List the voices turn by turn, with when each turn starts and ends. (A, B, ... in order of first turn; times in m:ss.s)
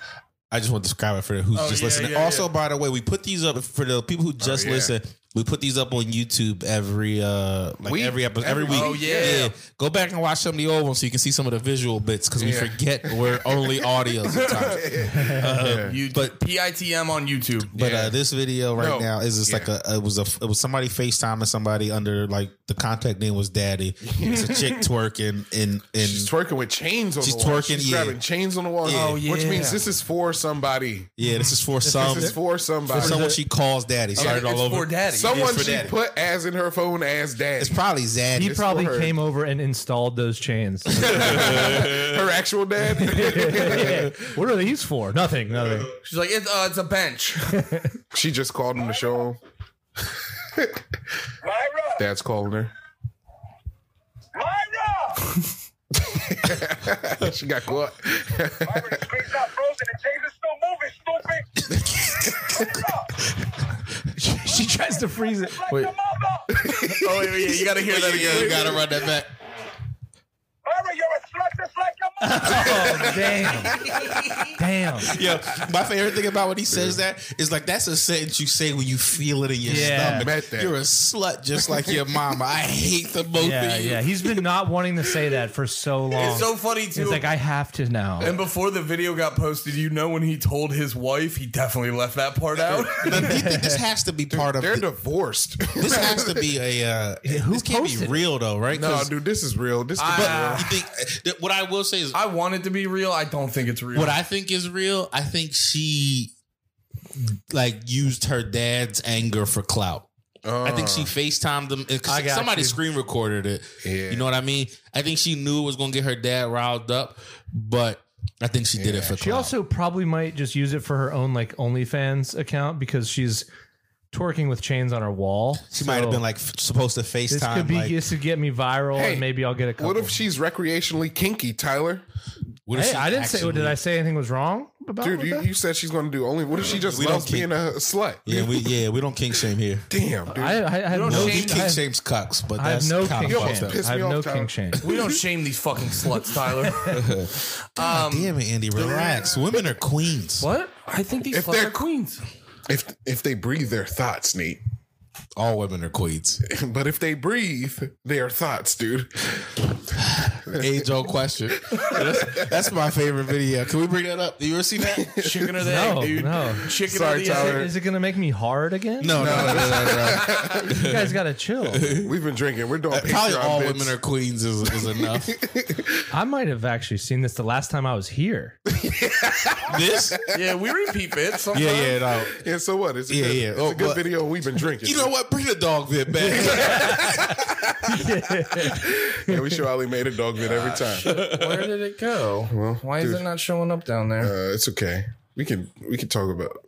0:00.5-0:16.3 A
0:01.5-0:02.5 B
0:04.4-0:04.9 C
0:07.8-0:09.5 C
0:08.7-0:09.5 B
0:12.4-0:16.0 C
0:15.4-0:17.7 B
0:17.7-0:18.2 C
0:17.7-0:26.3 A
0:18.7-0:19.7 C
0:24.0-0:24.8 C
0:26.0-0:31.1 C
0:27.2-0:28.2 A
0:28.8-0:29.2 A
0:28.8-0:29.8 B
0:31.2-0:36.0 A
0:31.2-0:32.3 D
0:31.8-0:33.2 C
0:32.9-0:33.4 D
0:34.2-0:34.4 C
0:34.2-0:35.8 B
0:35.1-0:37.8 C
0:37.6-0:38.7 A
0:38.3-0:41.6 D
0:38.4-0:39.2 C
0:40.9-0:44.2 C
0:41.1-0:42.2 A
0:42.9-0:45.9 D
0:46.0-0:47.5 B
0:47.5-0:47.9 D
0:48.1-0:49.4 C
0:51.4-0:52.0 E
0:52.0-0:52.7 C
0:54.3-0:55.4 E
0:56.0-0:59.0 C
0:58.6-1:03.2 E
1:02.0-1:02.6 C
1:04.1-1:05.8 D
1:05.4-1:06.6 E
1:06.5-1:07.3 C
1:06.8-1:08.8 B
1:07.8-1:09.3 A
1:08.0-1:08.8 C
1:10.6-1:13.2 E
1:12.2-1:13.8 D
1:12.5-1:14.4 C
1:14.5-1:15.1 D
1:15.0-1:24.1 A
1:16.7-1:17.0 C
1:19.6-1:20.3 D
1:19.8-1:20.7 C
1:23.4-1:28.3 D
1:26.2-1:27.3 B
1:28.2-1:33.4 B
1:33.0-1:34.8 A
1:33.1-1:33.8 D
1:34.3-1:36.4 C
1:35.7-1:39.1 A
1:37.2-1:38.2 D
1:38.7-1:40.6 C
1:40.0-1:40.7 B
1:40.0-1:42.2 A
1:42.1-1:44.2 B
1:43.9-1:46.3 A
1:47.5-1:50.1 A
1:50.4-1:51.1 C
1:50.6-1:59.5 A
1:52.0-1:52.8 D
1:53.8-1:54.2 C
1:58.8-1:59.2 C
1:59.2-2:03.4 D
2:04.1-2:06.2 D
2:05.7-2:08.0 A
2:07.3-2:10.1 D
2:08.9-2:12.0 C
2:12.7-2:13.8 A
2:12.7-2:15.4 D
2:15.0-2:18.5 C
2:16.7-2:17.5 A
2:18.2-2:19.8 A
2:19.9-2:20.6 C
2:20.3-2:21.8 D
2:20.9-2:21.7 B
2:21.0-2:23.8 A
2:22.6-2:25.0 D
2:23.2-2:24.9 C
2:24.8-2:27.2 B
2:26.8-2:30.5 A
2:27.8-2:29.2 B
2:30.4-2:32.2 B
2:31.3-2:31.8 C
2:32.7-2:34.6 C
2:35.4-2:36.4 A
2:36.4-2:39.6 C
2:40.1-2:45.2 A
2:41.7-2:42.5 C
2:44.8-2:45.9 C
2:45.2-2:47.7 B
2:45.6-2:49.6 D
2:46.7-2:47.7 C
2:49.0-2:51.2 A
2:49.1-2:50.6 C
2:50.4-2:52.0 D
2:51.7-2:52.1 A
2:52.0-2:53.9 C
2:52.9-2:55.4 A
2:54.7-2:55.8 C
2:56.1-2:58.6 D
2:58.8-3:00.4 C
2:59.6-3:00.2 A
3:00.3-3:02.0 B
3:01.5-3:02.4 A
3:02.3-3:05.1 C
3:03.1-3:04.0 A
3:04.8-3:07.4 A
3:06.3-3:07.7 C
3:06.4-3:07.2 D
3:07.8-3:09.5 D
3:08.5-3:11.2 C
3:10.4-3:14.3 B
3:11.0-3:11.7 A
3:12.5-3:13.2 C
3:14.2-3:16.6 C